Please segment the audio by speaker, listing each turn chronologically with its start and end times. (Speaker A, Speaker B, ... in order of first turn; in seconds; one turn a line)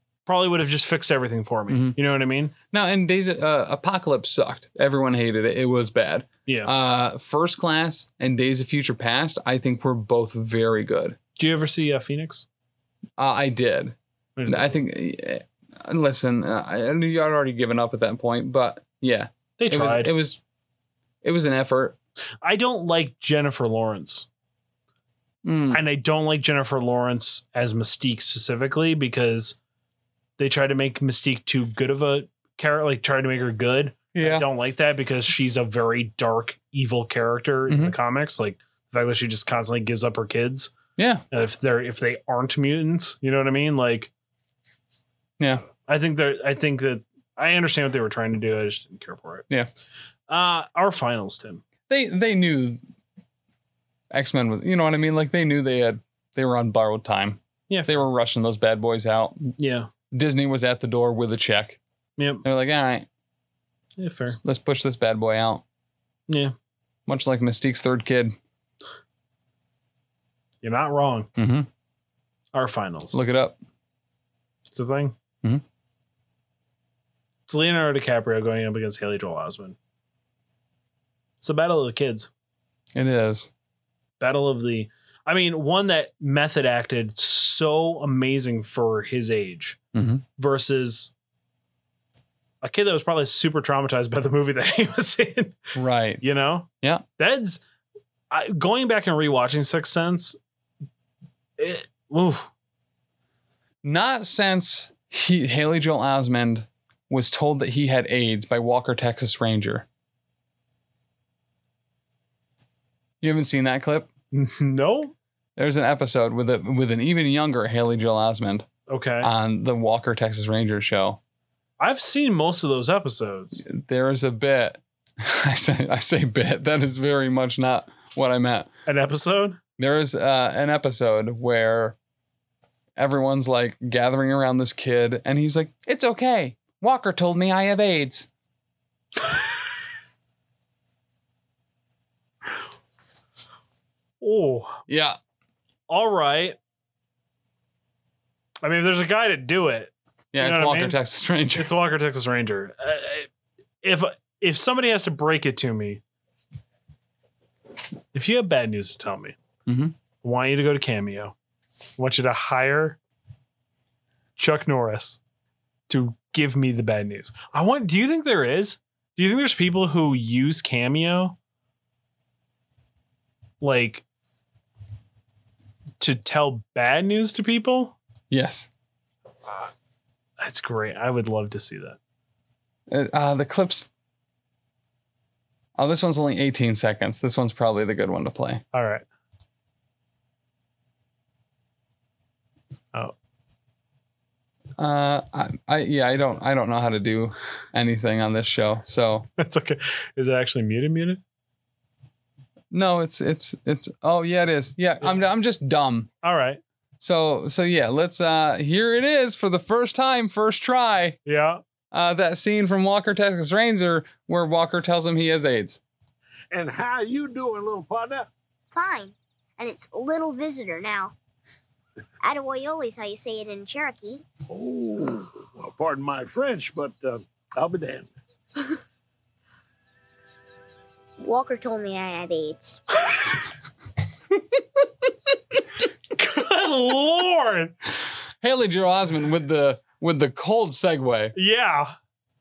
Speaker A: 0.2-2.5
Speaker B: 1.7-2.0
Speaker B: 2.7-11.2
Speaker A: 6.5-6.7
Speaker A: 11.4-12.4
Speaker B: 13.2-13.9
Speaker A: 14.3-14.8
Speaker B: 14.5-20.4
Speaker A: 19.6-20.1
Speaker B: 21.2-21.9
Speaker A: 22.4-24.3
Speaker B: 25.4-25.8
Speaker A: 25.7-29.6
Speaker A: 30.4-40.7
Speaker B: 34.1-34.5
Speaker B: 37.7-37.9
Speaker B: 41.0-41.2
Speaker A: 41.3-44.1
Speaker A: 45.7-49.5
Speaker A: 50.3-51.6
Speaker B: 51.9-52.8
Speaker B: 54.1-59.5
Speaker A: 57.7-58.0
Speaker A: 59.6-59.9
Speaker B: 60.1-61.8
Speaker A: 62.2-62.4
Speaker B: 62.4-63.1
Speaker A: 64.0-64.4
Speaker B: 64.4-65.6
Speaker A: 66.3-66.5
Speaker B: 67.1-68.3
Speaker A: 70.6-71.3
Speaker B: 71.3-71.7
Speaker A: 72.5-73.2
Speaker B: 73.1-73.6
Speaker A: 74.7-75.1
Speaker A: 77.5-79.8
Speaker A: 81.4-82.3
Speaker B: 82.9-83.5
Speaker A: 84.2-89.8
Speaker B: 89.9-90.2
Speaker A: 90.4-91.1
Speaker A: 92.6-97.6
Speaker B: 95.7-96.3
Speaker A: 98.3-100.4
Speaker A: 101.6-102.5
Speaker B: 103.8-109.8
Speaker B: 113.2-114.1
Speaker A: 114.3-115.1
Speaker B: 115.6-118.7
Speaker A: 118.9-119.3
Speaker B: 119.2-121.2
Speaker A: 121.8-123.6
Speaker B: 123.6-128.7
Speaker A: 128.8-129.6
Speaker B: 129.8-131.9
Speaker B: 133.0-138.3
Speaker A: 144.2-144.8
Speaker B: 144.9-145.2
Speaker A: 145.9-146.6
Speaker A: 148.6-151.0
Speaker B: 150.3-151.7
Speaker A: 151.6-153.3
Speaker A: 153.8-156.0
Speaker A: 158.1-159.3
Speaker B: 159.7-159.9
Speaker A: 160.2-161.3
Speaker A: 162.0-163.0
Speaker A: 164.3-165.2
Speaker A: 165.9-171.3
Speaker A: 173.6-174.0
Speaker A: 176.0-177.9
Speaker B: 178.3-178.7
Speaker A: 180.4-182.0
Speaker B: 182.9-183.9
Speaker B: 185.8-188.6
Speaker A: 188.7-189.0
Speaker B: 194.8-199.3
Speaker A: 199.4-201.2
Speaker B: 202.7-206.1
Speaker A: 206.2-206.6
Speaker B: 207.0-211.2
Speaker A: 211.2-211.6
Speaker B: 211.9-215.8
Speaker C: 216.5-218.3
Speaker D: 218.7-221.1
Speaker D: 222.2-224.2
Speaker C: 224.5-228.1
Speaker D: 231.2-233.1
Speaker A: 236.1-237.7
Speaker B: 238.4-241.3
Speaker A: 241.3-241.9